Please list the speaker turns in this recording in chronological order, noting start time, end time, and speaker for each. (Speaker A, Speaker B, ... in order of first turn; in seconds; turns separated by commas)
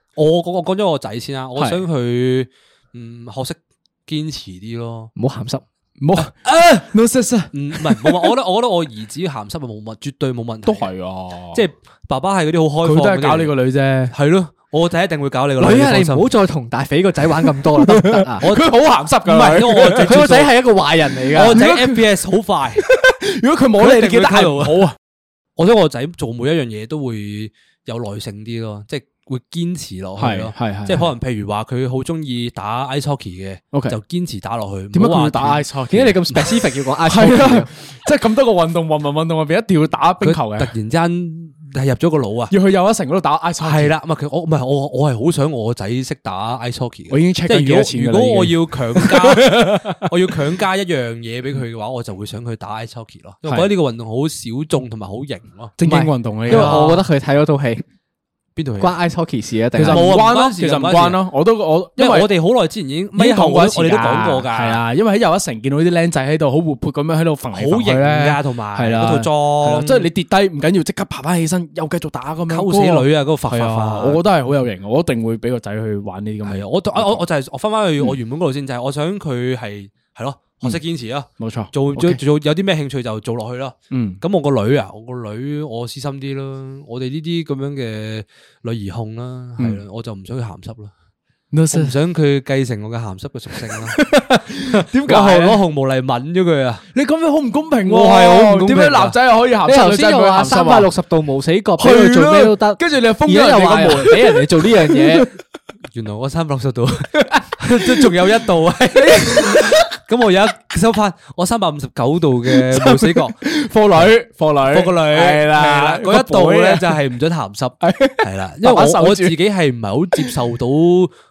Speaker A: 0.1-5.1, Speaker B: 1.6-1.8, Speaker C: 5.2-5.6, Speaker B: 6.0-8.3, Speaker A: 6.2-6.8, Speaker A: 7.5-10.9, Speaker B: 10.7-11.6, Speaker A: 11.5-13.5, Speaker B: 12.8-14.1, Speaker A: 14.1-16.3, Speaker C: 15.6-18.4, Speaker B: 17.7-20.2, Speaker A: 18.4-20.5, Speaker C: 20.0-21.6, Speaker A: 21.3-22.8, Speaker B: 21.5-22.0, Speaker B: 22.8-24.9, Speaker A: 23.8-24.9, Speaker A: 25.6-35.6, Speaker B: 30.2-31.1, Speaker B: 33.7-34.0, Speaker B: 34.9-36.3, Speaker C: 35.9-37.7, Speaker B: 37.0-40.7, Speaker A: 40.2-42.5, Speaker B: 42.5-43.9, Speaker A: 43.6-55.7, Speaker B: 47.1-50.3, Speaker B: 53.4-53.7, Speaker B: 55.8-57.0, Speaker C: 55.8-57.8, Speaker A: 56.5-56.9, Speaker A: 58.5-59.0, Speaker C: 58.8-60.1, Speaker B: 59.7-62.3, Speaker A: 59.8-61.2, Speaker A: 62.0-64.8, Speaker B: 63.1-77.2, Speaker A: 67.5-70.1, Speaker A: 72.5-74.2, Speaker A: 76.4-90.9, Speaker B: 81.4-82.2, Speaker B: 83.9-84.2, Speaker B: 91.5-91.9, Speaker A: 91.7-96.8, Speaker B: 93.6-95.6, Speaker B: 96.9-100.9, Speaker A: 97.8-99.2, Speaker C: 99.6-105.3, Speaker B: 101.8-105.2, Speaker A: 105.9-113.4, Speaker B: 107.2-108.1, Speaker B: 109.0-109.9, Speaker B: 112.5-117.0, Speaker A: 114.7-121.1, Speaker B: 117.8-119.3